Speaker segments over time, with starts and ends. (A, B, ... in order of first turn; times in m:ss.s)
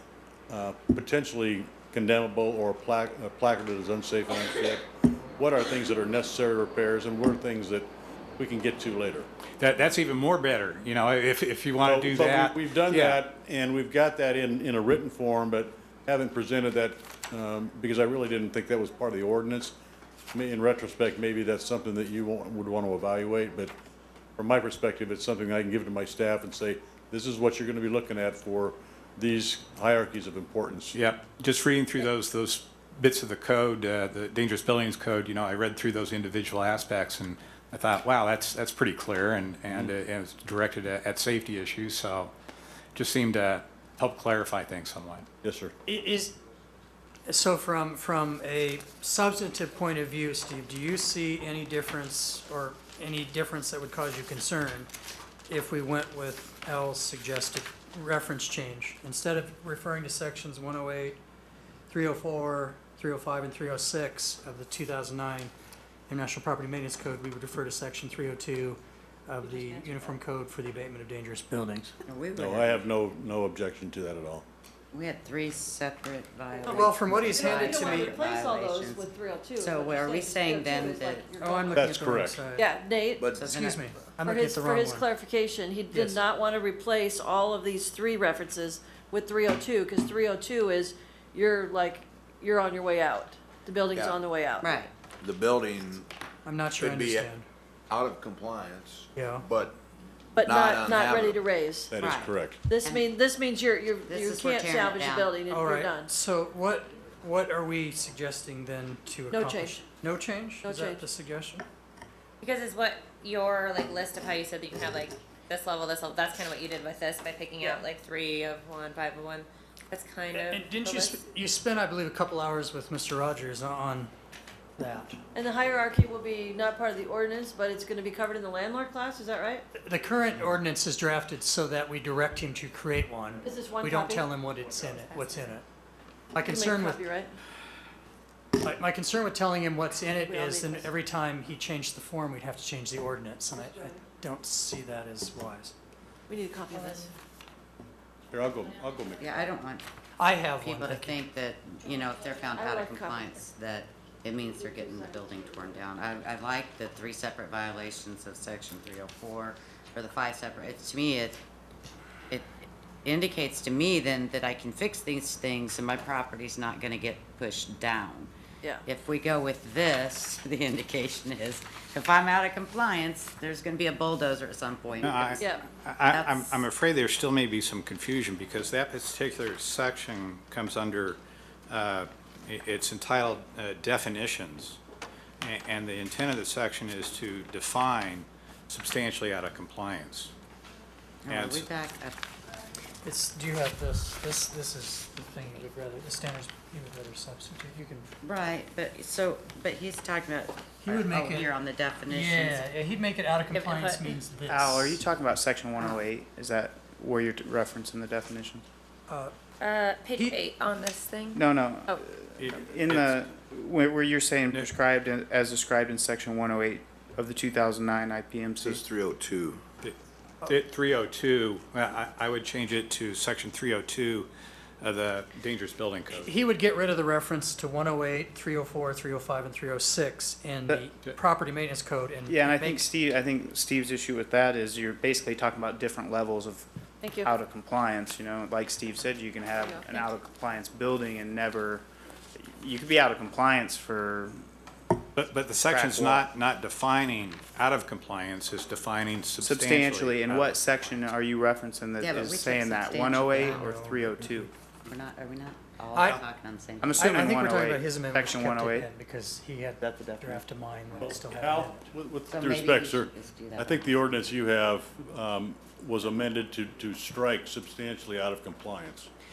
0:00.5-0:04.9 A
0:05.4-0:09.3 A
0:09.6-0:13.2 B
0:11.8-0:19.7 A
0:20.3-0:23.7 A
0:24.4-0:31.0 A
0:30.9-0:42.3 B
0:43.0-0:45.3 B
0:45.4-0:45.8 A
0:45.9-0:46.4 C
0:47.3-0:54.9 C
0:55.5-1:01.2 C
1:01.9-1:05.5 C
1:06.1-1:12.0 C
1:09.4-1:10.2 D
1:12.0-1:12.9 E
1:12.4-1:14.4 A
1:14.9-1:19.0 E
1:16.6-1:18.2 C
1:17.3-1:21.8 F
1:19.6-1:21.3 E
1:21.4-1:22.7 C
1:21.7-1:22.4 A
1:22.6-1:23.3 F
1:23.2-1:23.5 G
1:23.3-1:23.8 E
1:23.4-1:25.0 C
1:24.2-1:34.8 F
1:25.9-1:26.2 C
1:33.9-1:34.2 G
1:34.6-1:34.9 E
1:35.2-1:36.1 G
1:36.4-1:37.5 C
1:36.8-1:37.3 G
1:37.9-1:39.8 G
1:39.2-1:39.5 C
1:40.4-1:42.0 F
1:40.4-1:41.5 G
1:41.9-1:42.6 A
1:42.0-1:43.0 E
1:42.6-1:46.1 F
1:44.1-1:45.3 E
1:45.4-1:51.6 C
1:49.3-1:49.8 F
1:50.6-1:51.1 F
1:52.4-2:01.2 D
2:00.3-2:04.1 C
2:04.8-2:05.2 C
2:05.3-2:09.7 F
2:09.7-2:15.7 C
2:13.4-2:14.3 F
2:15.1-2:15.6 D
2:16.3-2:17.0 C
2:16.4-2:17.4 F
2:18.6-2:25.7 C
2:20.2-2:20.9 F
2:23.5-2:24.1 F
2:26.3-2:27.1 F
2:26.7-2:27.0 C
2:28.3-2:29.4 A
2:29.2-2:29.9 E
2:30.2-2:31.2 C
2:30.5-2:41.4 E
2:32.6-2:33.5 F
2:34.3-2:35.8 F
2:42.3-2:48.3 E
2:48.8-2:55.5 E
2:55.0-3:01.2 B
2:55.4-2:55.6 F
2:56.1-2:56.6 E
3:01.7-3:04.8 B
3:05.4-3:10.3 B
3:11.2-3:12.2 E
3:11.3-3:11.7 B
3:13.0-3:18.1 C
3:18.2-3:22.6 E
3:20.8-3:21.5 C
3:22.1-3:25.0 C
3:23.5-3:24.2 D
3:24.5-3:28.6 H
3:29.1-3:29.3 C
3:29.6-3:31.4 D
3:31.4-3:38.8 H
3:32.4-3:33.2 B
3:38.6-3:39.6 G
3:39.8-3:44.3 B
3:44.8-3:46.3 B
3:46.1-3:52.9 C
3:52.3-3:56.7 H
3:57.0-3:57.3 F
3:57.2-4:01.9 H
3:59.6-4:00.1 F
4:02.4-4:04.4 H
4:05.2-4:11.0 B
4:05.7-4:06.2 H
4:09.4-4:14.5 H
4:12.0-4:13.8 E
4:13.4-4:14.5 C
4:14.9-4:17.2 E
4:16.8-4:18.9 H
4:17.0-4:21.9 C
4:19.8-4:20.4 H
4:21.0-4:29.1 A
4:22.3-4:24.0 E